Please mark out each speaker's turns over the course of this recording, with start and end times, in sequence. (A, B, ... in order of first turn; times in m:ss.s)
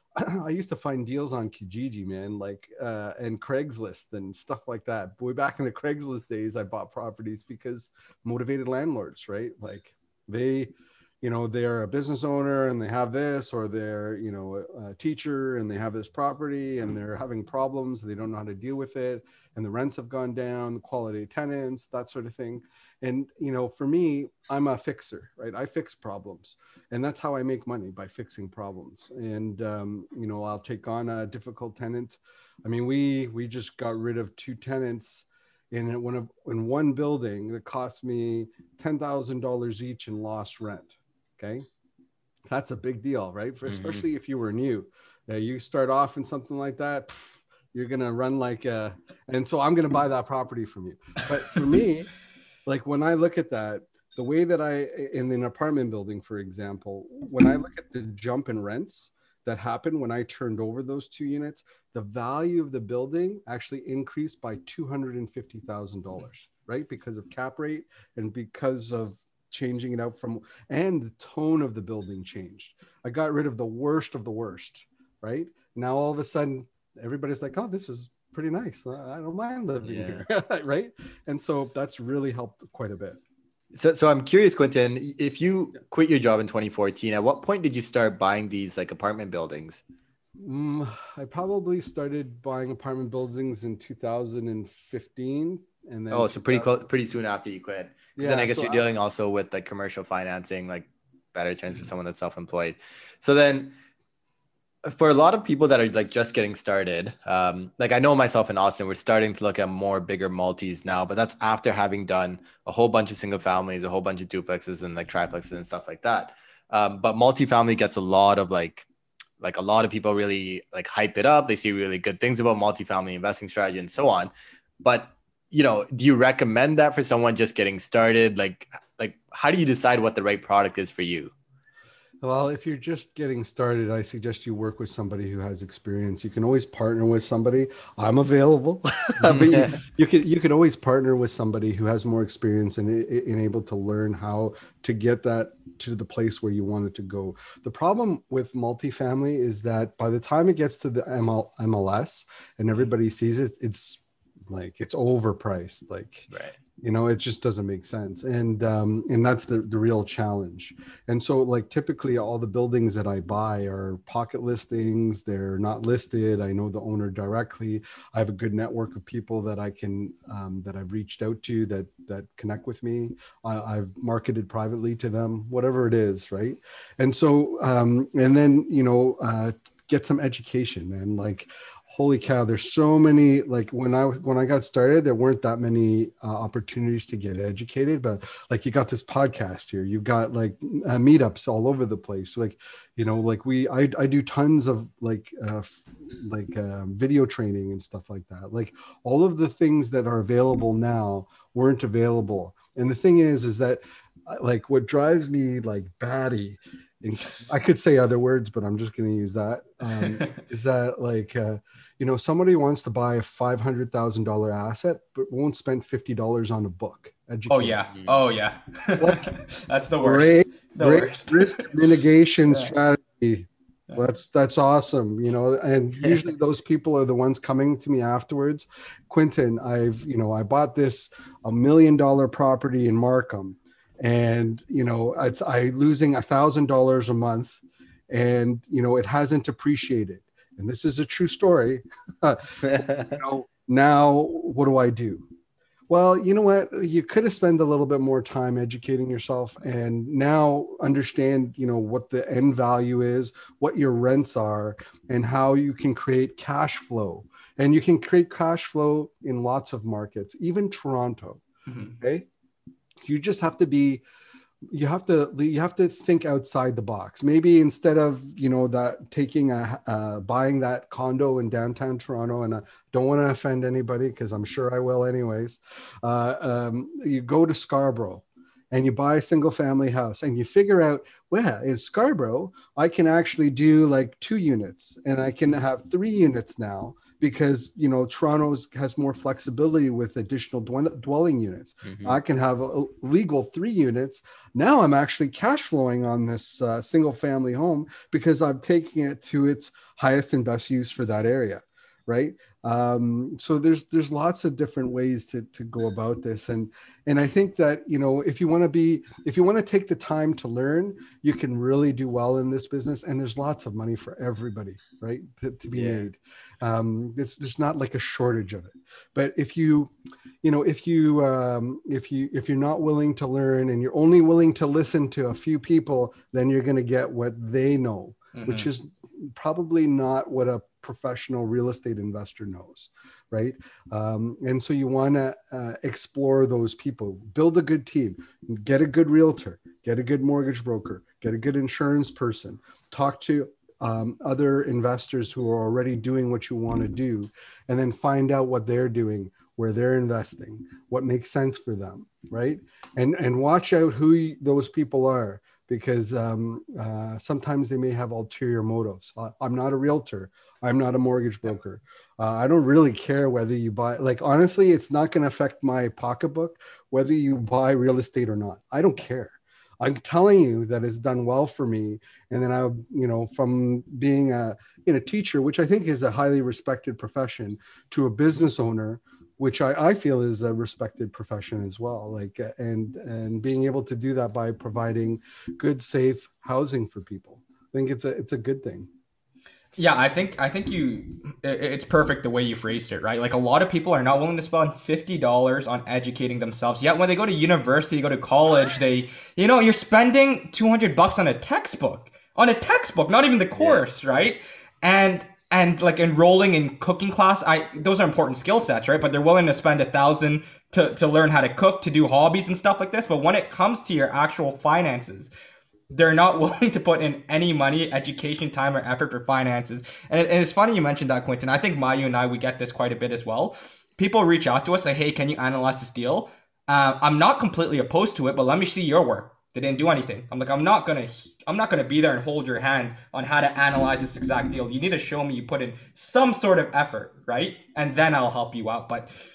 0:00.2-0:41.7 A
0:42.5-0:52.1 A
0:43.7-0:44.0 B
0:52.7-1:23.2 A
1:19.8-1:20.2 B
1:23.7-1:29.8 B
1:30.4-1:36.7 A
1:36.1-1:43.7 B
1:38.2-1:38.9 A
1:44.8-1:58.9 B
1:59.4-2:11.3 B
2:12.2-3:37.8 A
2:19.2-2:19.8 B
3:29.9-3:30.4 C
3:37.5-3:41.7 C
3:39.0-3:39.3 A
3:40.0-4:05.3 A
4:05.9-4:21.4 A
4:21.7-4:22.0 C
4:22.0-4:22.3 A
4:23.0-4:24.0 A
4:24.7-6:28.9 A
4:51.8-4:52.2 B
5:15.7-5:16.0 B
5:28.4-5:28.7 C
6:29.8-6:55.3 C
6:43.6-6:43.8 B
6:55.9-7:19.1 C